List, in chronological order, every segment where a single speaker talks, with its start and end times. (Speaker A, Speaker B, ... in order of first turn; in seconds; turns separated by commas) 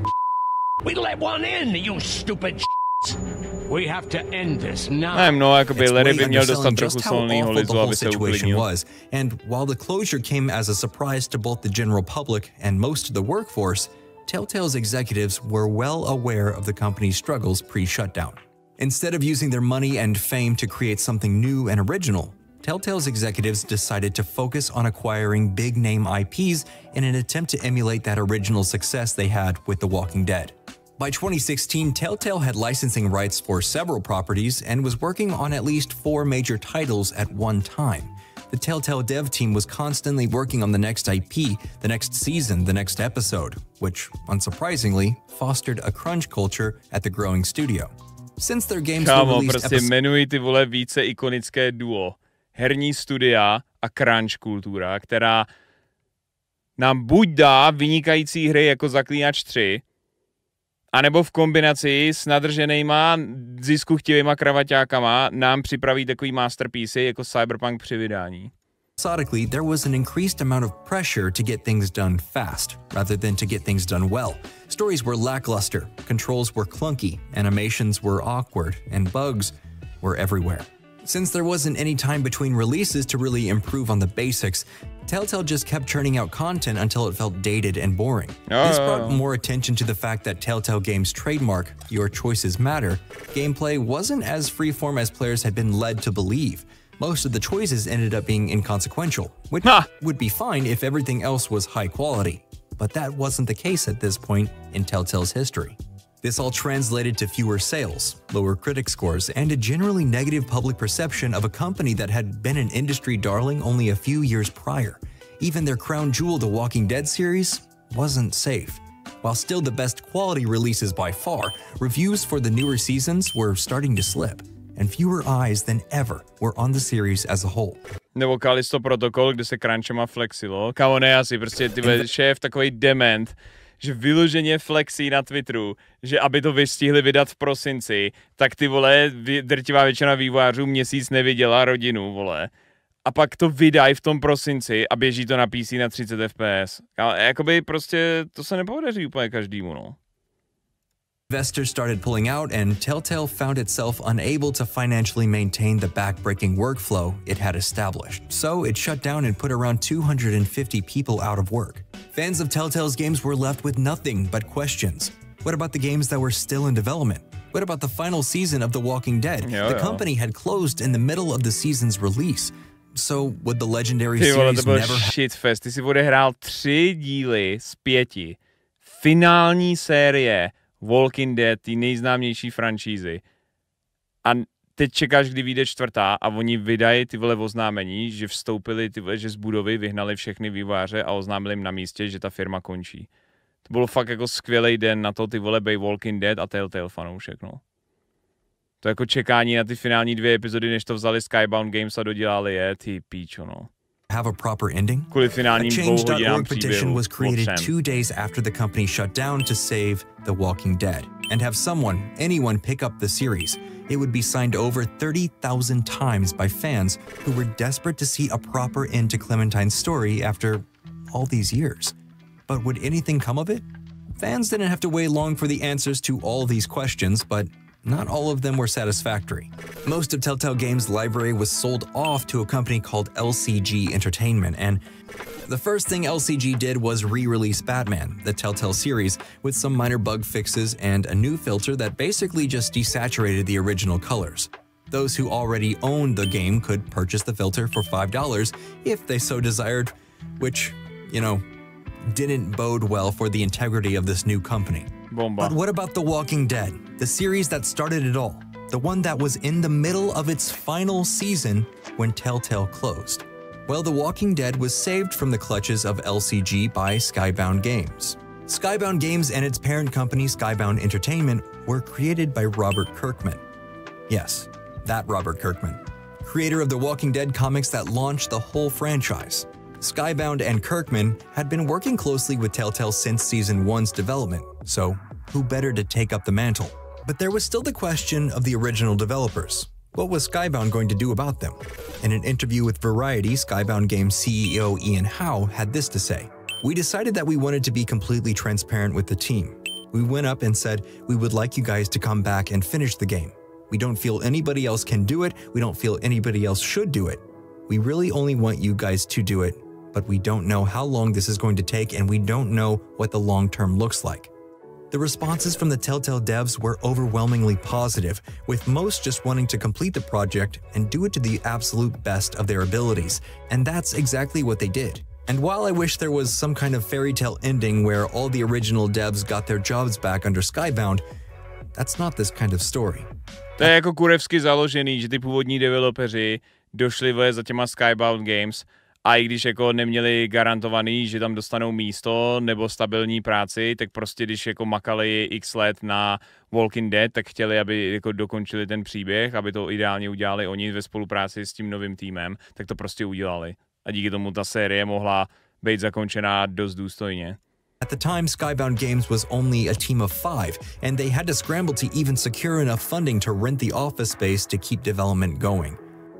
Speaker A: 0.8-5.4, Speaker B: 5.1-8.6, Speaker C: 5.7-49.9, Speaker B: 49.0-55.5, Speaker B: 56.8-59.8, Speaker B: 60.9-68.5, Speaker C: 69.0-127.8, Speaker B: 88.5-89.2, Speaker B: 99.6-99.9, Speaker B: 128.2-142.5, Speaker B: 143.1-150.0, Speaker C: 151.3-175.1, Speaker B: 169.4-170.0, Speaker B: 174.2-183.2, Speaker B: 184.2-193.1, Speaker B: 193.7-197.6, Speaker B: 198.8-203.7, Speaker C: 204.1-221.9, Speaker B: 205.1-207.7, Speaker C: 222.5-223.6, Speaker C: 224.2-234.8, Speaker C: 235.4-251.4, Speaker C: 252.0-273.4, Speaker B: 255.1-255.5, Speaker C: 274.1-314.3, Speaker C: 314.9-331.0, Speaker C: 331.7-333.1, Speaker B: 333.6-357.4, Speaker C: 357.8-365.8